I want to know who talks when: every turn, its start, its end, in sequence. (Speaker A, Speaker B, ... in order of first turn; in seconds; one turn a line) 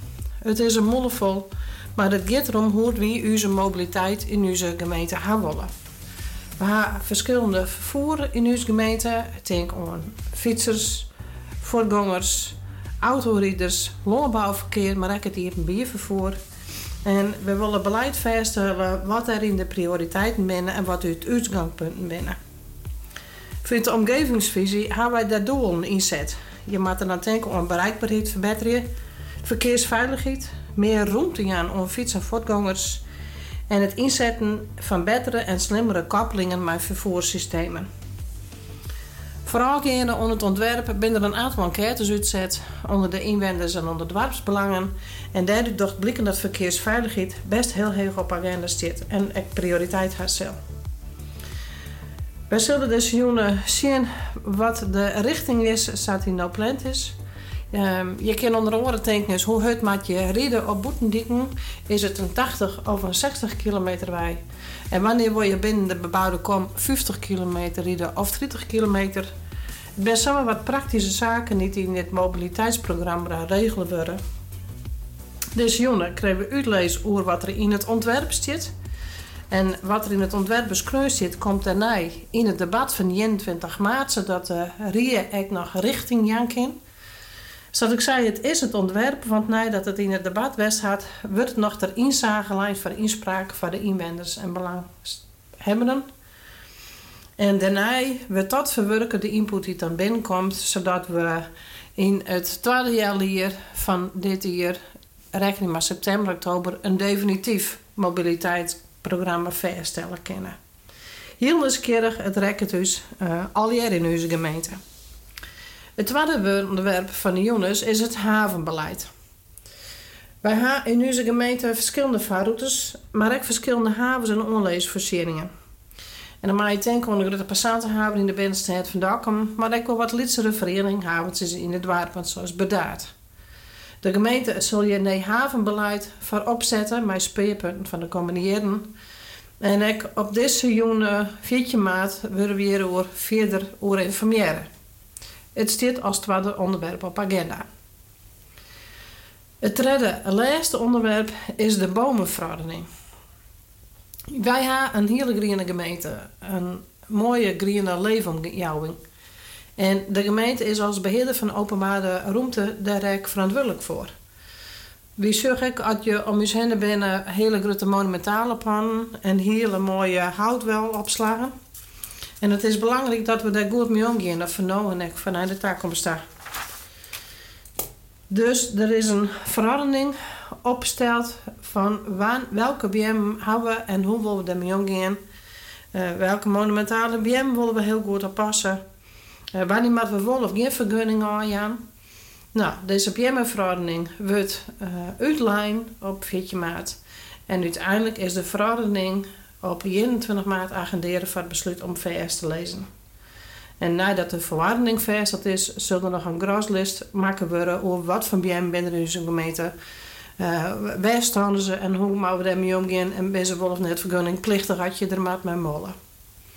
Speaker A: 0.4-5.7
Speaker A: 6.6-11.1
Speaker A: 11.6-16.4
Speaker A: 17.1-22.4
Speaker A: 23.6-28.9
Speaker A: 29.4-33.0
Speaker A: 33.7-37.9
Speaker A: 39.5-50.6
Speaker A: 52.5-57.2
Speaker A: 57.7-69.3
Speaker A: 70.0-74.2
Speaker A: 75.5-78.7
Speaker A: 79.5-86.8
Speaker A: 87.7-96.1
Speaker A: 97.4-104.8
Speaker A: 105.3-110.6
Speaker A: 111.4-114.8
Speaker A: 116.0-119.1
Speaker A: 120.4-125.5
Speaker A: 126.4-133.1
Speaker A: 134.0-138.9
Speaker A: 139.6-144.7
Speaker A: 145.6-147.7
Speaker A: 149.6-152.9
Speaker A: 154.3-159.0
Speaker A: 159.8-164.1
Speaker A: 165.2-171.5
Speaker A: 172.4-176.2
Speaker A: 178.3-185.2
Speaker A: 185.9-188.8
Speaker A: 189.6-191.8
Speaker A: 192.5-202.9
Speaker A: 203.8-209.7
Speaker A: 210.4-216.0